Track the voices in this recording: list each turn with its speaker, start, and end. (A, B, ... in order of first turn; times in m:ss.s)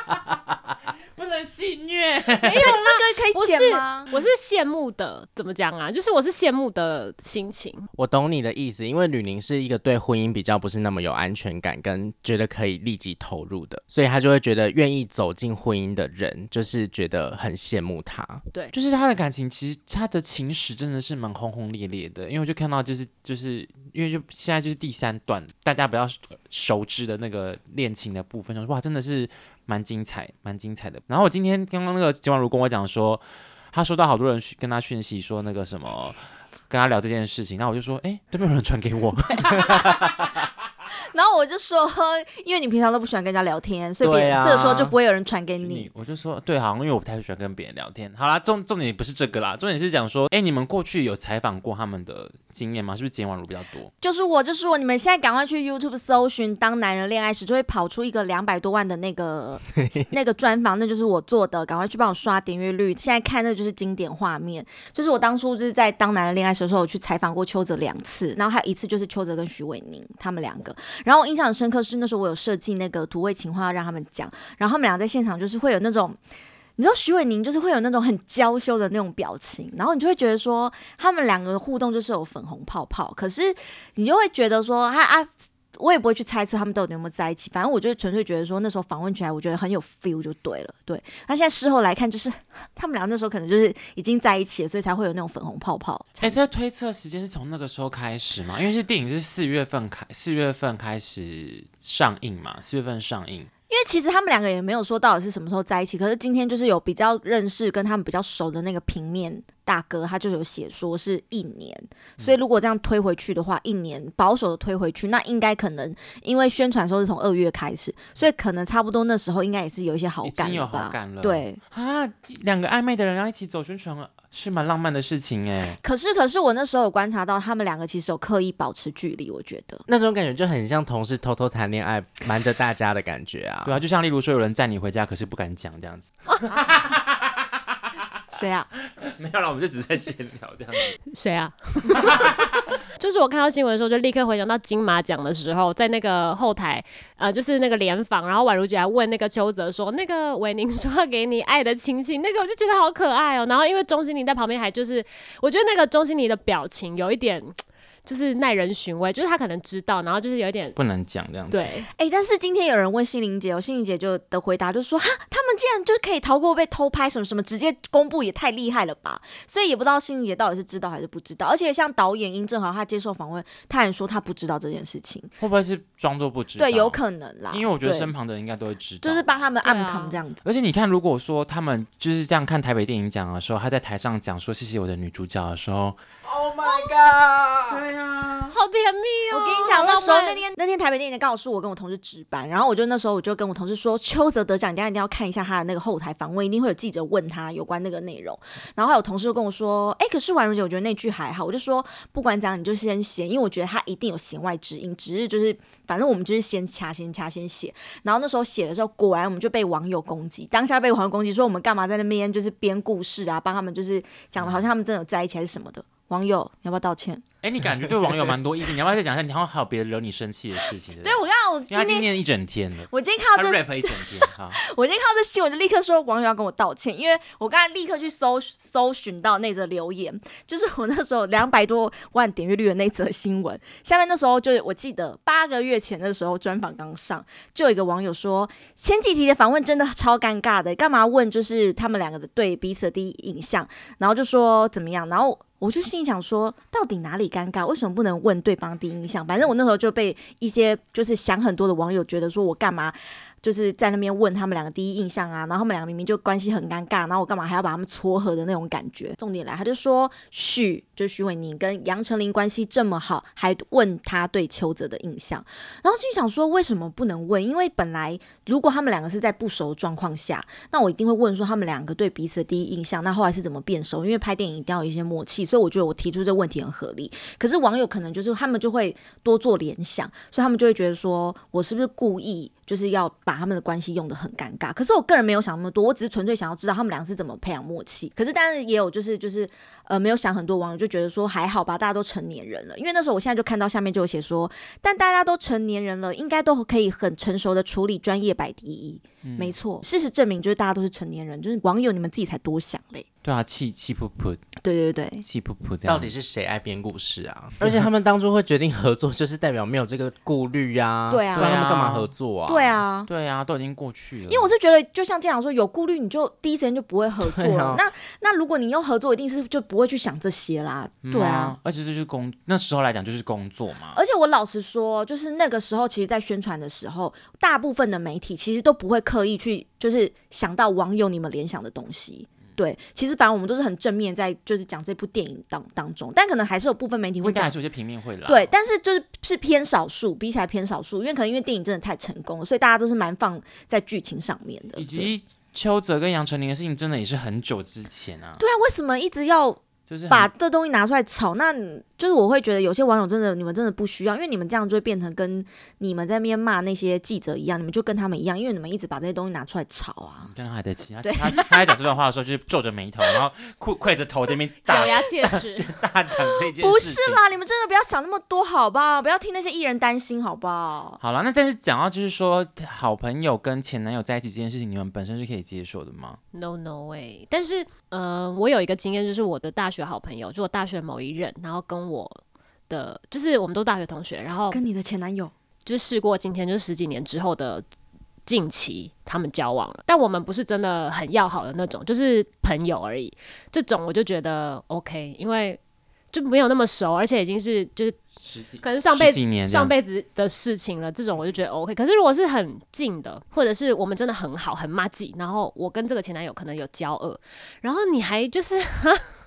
0:01.1-0:02.7 A
0:02.4-0:07.9 B
0:02.5-0:04.1 C
0:08.0-0:18.4 D
0:18.7-0:39.8 A
0:39.4-0:40.3 C
0:40.9-0:45.9 C
0:44.0-0:45.0 D
0:45.6-0:53.9 A
0:54.0-1:16.2 C
1:16.8-1:36.4 C
1:36.2-1:43.5 A
1:43.7-2:01.6 C
2:00.2-2:05.8 A
2:05.8-2:09.8 C
2:09.9-2:13.8 D
2:13.6-2:17.4 A
2:18.3-2:18.7 C
2:19.0-2:21.0 A
2:21.1-2:22.3 B
2:22.0-2:22.3 A
2:22.9-2:40.8 B
2:40.8-2:41.7 A
2:41.5-2:41.9 B
2:42.0-2:55.3 C
2:55.4-2:59.5 A
2:56.6-2:58.1 C
2:59.0-3:00.4 C
2:59.6-3:00.2 B
3:00.4-3:06.0 A
3:06.2-3:07.9 D
3:07.7-3:08.5 A
3:08.5-3:10.4 B
3:09.3-3:37.2 C
3:34.4-3:34.7 A
3:37.4-3:44.6 A
3:41.0-3:42.1 C
3:42.9-5:03.1 C
4:59.2-4:59.6 A
5:03.2-5:04.4 A
5:04.6-5:05.2 C
5:05.2-5:06.1 A
5:05.8-5:12.8 D
5:11.1-5:11.8 C
5:11.3-5:12.1 A
5:12.5-5:13.1 C
5:13.1-5:14.5 A
5:14.3-5:21.6 C
5:17.2-5:17.8 D
5:21.0-5:24.0 A
5:23.9-5:37.6 C
5:37.2-5:38.5 A
5:38.3-5:45.1 C
5:44.8-5:48.4 A
5:48.4-6:00.3 C
5:49.9-5:50.3 A
6:00.3-6:07.2 A
6:01.0-6:01.7 C
6:04.6-6:05.7 B
6:06.6-6:11.0 C
6:11.0-6:16.2 A
6:16.3-6:24.6 B
6:24.5-6:25.3 C
6:25.7-6:27.6 B
6:28.3-6:35.6 B
6:36.1-6:38.0 B
6:38.2-6:39.7 A
6:38.6-6:49.0 B